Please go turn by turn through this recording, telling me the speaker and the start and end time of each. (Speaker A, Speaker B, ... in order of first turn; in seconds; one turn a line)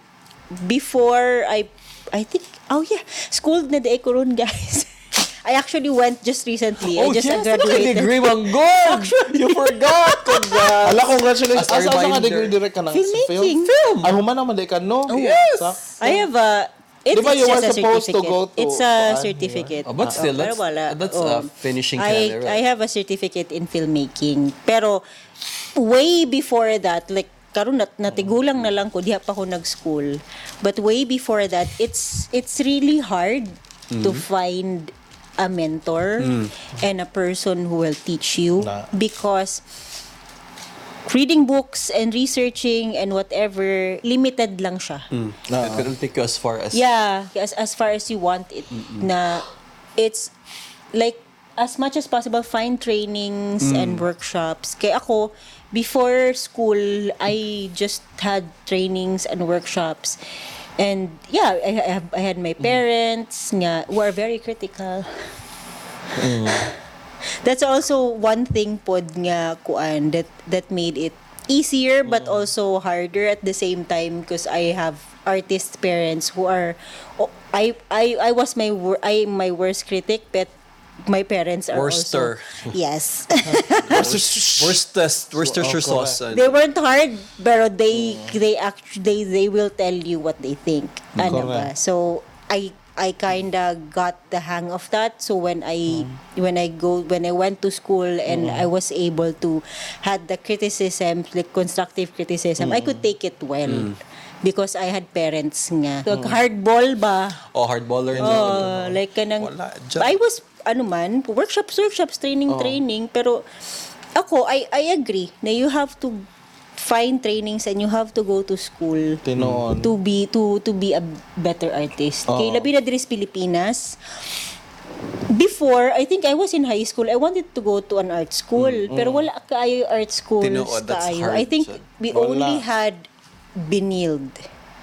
Speaker A: 0.5-10.7
Speaker B: 6.8-12.5
Speaker C: 10.8-16.2
Speaker A: 12.9-13.7
Speaker B: 13.6-14.1
Speaker A: 15.1-25.0
Speaker B: 15.1-15.8
Speaker C: 17.1-20.2
Speaker B: 19.9-22.6
Speaker A: 25.8-39.6
Speaker B: 33.9-34.2
Speaker B: 36.2-36.5
Speaker C: 38.6-38.9
Speaker A: 41.0-45.0
Speaker B: 45.1-46.8
Speaker C: 45.5-45.9
Speaker A: 46.7-49.5
Speaker B: 48.7-49.1
Speaker A: 50.0-50.3
Speaker A: 50.9-60.2
Speaker B: 53.6-54.0
Speaker A: 60.8-65.1
Speaker C: 66.2-66.7
Speaker A: 66.3-66.7
Speaker A: 67.4-80.5
Speaker C: 72.0-72.5
Speaker A: 81.0-84.0
Speaker B: 81.7-82.8
Speaker C: 83.5-84.8
Speaker B: 83.8-86.5
Speaker C: 85.4-86.2
Speaker A: 86.3-103.9
Speaker C: 87.9-88.3
Speaker B: 91.2-91.4
Speaker C: 91.2-91.7
Speaker C: 98.3-98.7
Speaker C: 102.6-103.0
Speaker B: 103.7-104.0
Speaker A: 104.4-107.4
Speaker C: 106.1-106.4
Speaker B: 107.5-108.7
Speaker C: 108.1-109.0
Speaker A: 108.2-113.4
Speaker B: 109.4-110.2
Speaker C: 112.5-112.8
Speaker A: 114.2-119.2
Speaker C: 119.2-119.9
Speaker B: 119.4-119.6
Speaker A: 119.8-124.0
Speaker C: 122.3-122.7
Speaker A: 125.3-134.4
Speaker B: 128.6-128.9
Speaker C: 128.9-129.3
Speaker B: 130.4-131.8
Speaker C: 132.1-132.6